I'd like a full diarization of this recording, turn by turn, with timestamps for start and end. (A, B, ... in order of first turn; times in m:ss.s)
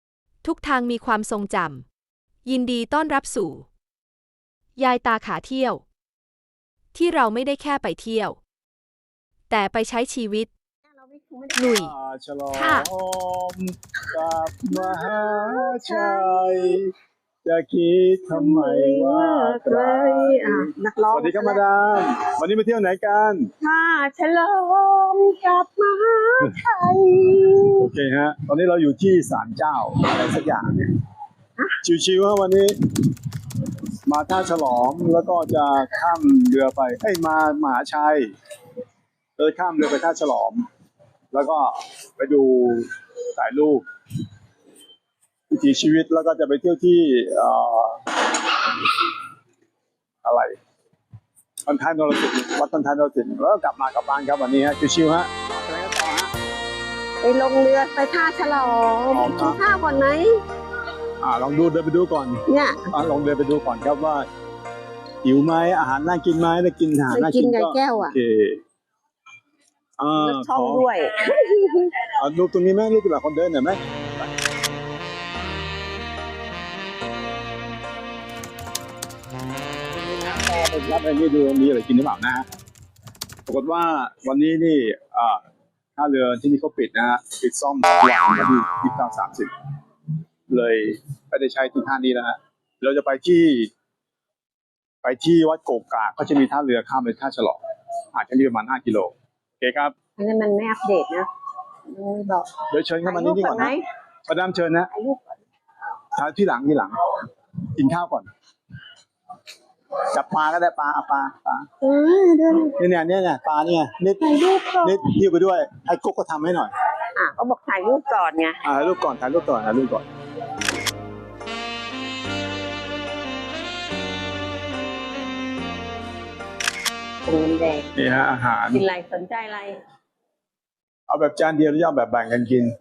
0:00.4-0:01.8 A
0:02.4-0:03.7 A
0:04.8-0:05.8 A
0:06.9-0:08.4 A
0:09.5-0:10.5 A
0:10.8-0:11.7 B
0:11.6-0:11.9 A
0:11.7-0:23.5 C
0:12.5-0:12.9 A
0:14.7-0:16.8 B
0:18.3-0:21.6 B
0:23.6-0:27.9 B
0:27.8-0:30.9 C
0:31.8-0:33.0 C
0:34.0-0:38.3 C
0:39.4-0:40.7 C
0:41.3-0:43.8 C
0:45.5-0:48.0 C
0:50.2-0:50.6 C
0:51.6-0:56.3 C
0:57.2-1:00.4 B
0:59.1-0:59.6 C
1:01.2-1:04.3 C
1:02.5-1:02.9 B
1:05.2-1:08.6 C
1:07.1-1:08.2 B
1:10.0-1:10.9 C
1:10.2-1:12.0 B
1:12.1-1:13.8 C
1:20.1-1:22.5 C
1:23.5-1:25.4 C
1:26.0-1:29.5 C
1:30.5-1:33.7 C
1:35.0-1:37.6 C
1:38.1-1:39.9 C
1:40.2-1:41.3 B
1:41.9-1:43.8 B
1:42.7-1:43.7 C
1:44.3-1:44.9 C
1:44.9-1:45.4 B
1:46.2-1:48.3 C
1:50.0-1:51.7 C
1:51.8-1:52.8 B
1:52.8-1:56.7 C
1:54.2-1:55.1 B
1:57.2-1:58.6 B
1:58.6-2:00.0 C
2:07.2-2:07.9 B
2:08.0-2:08.8 C
2:08.7-2:09.8 B
2:11.1-2:12.7 C